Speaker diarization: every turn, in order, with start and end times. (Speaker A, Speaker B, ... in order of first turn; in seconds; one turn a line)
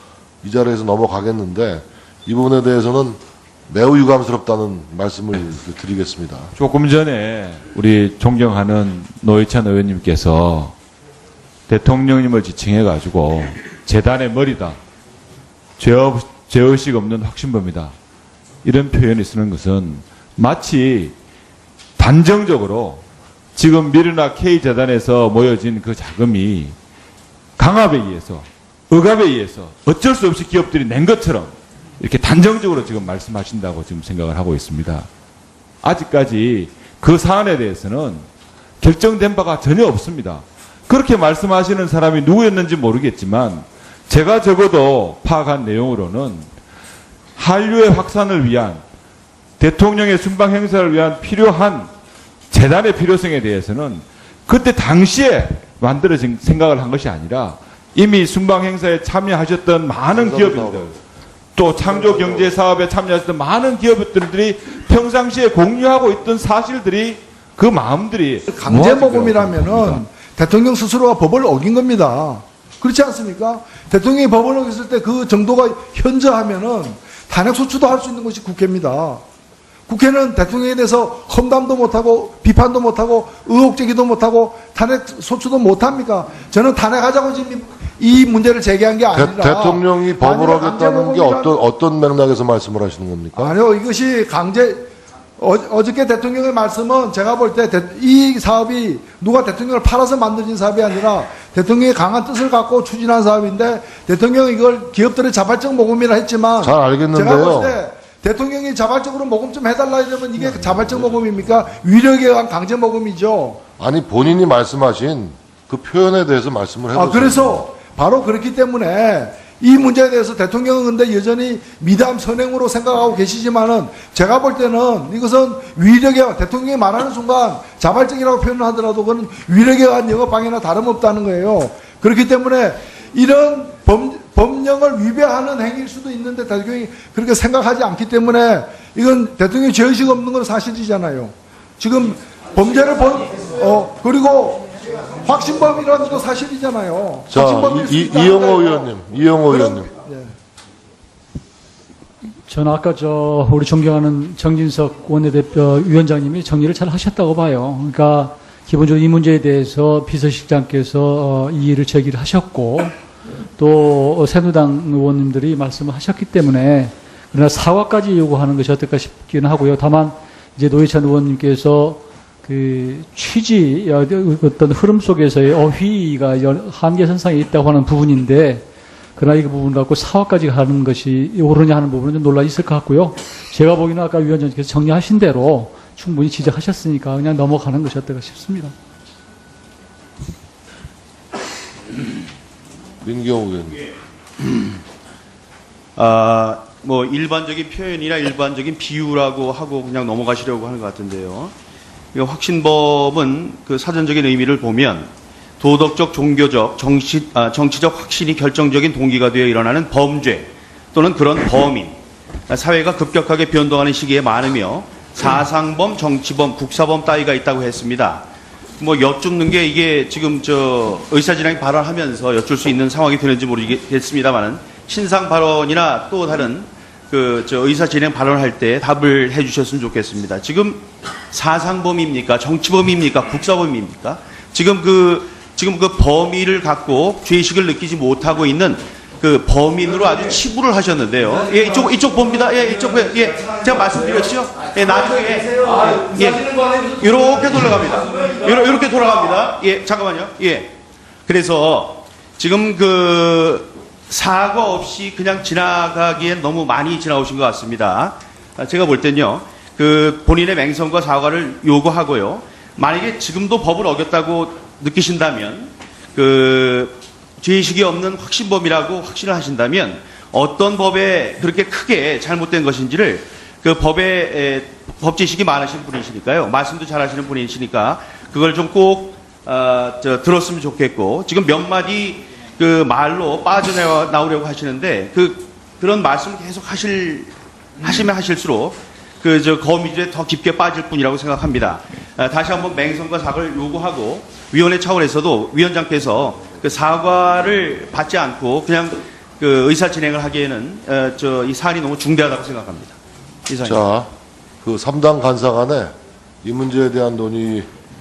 Speaker A: 0.4-6.5
Speaker B: 6.5-10.7
Speaker B: 11.7-14.8
Speaker B: 15.8-17.9
Speaker B: 18.6-21.1
Speaker B: 22.0-23.0
Speaker B: 23.5-26.7
Speaker B: 27.6-35.1
Speaker B: 35.8-38.2
Speaker B: 38.8-46.5
Speaker B: 47.4-48.8
Speaker B: 49.6-51.9
Speaker B: 52.5-60.9
Speaker A: 60.1-60.9
Speaker B: 61.5-70.0
Speaker A: 61.8-62.6
Speaker C: 68.5-79.2
Speaker C: 79.9-91.5
Speaker A: 89.1-93.6
Speaker C: 93.3-94.8
Speaker C: 95.4-113.6
Speaker A: 106.6-107.8
Speaker A: 110.5-111.2
Speaker A: 113.8-117.7
Speaker C: 116.9-150.3
Speaker A: 147.3-149.9
Speaker D: 152.5-162.9
Speaker D: 163.6-188.7
Speaker A: 193.0-193.8
Speaker E: 195.9-201.5
Speaker E: 202.1-218.2
Speaker E: 218.8-250.7
Speaker E: 251.2-303.8
Speaker A: 303.6-304.1
Speaker A: 304.6-307.7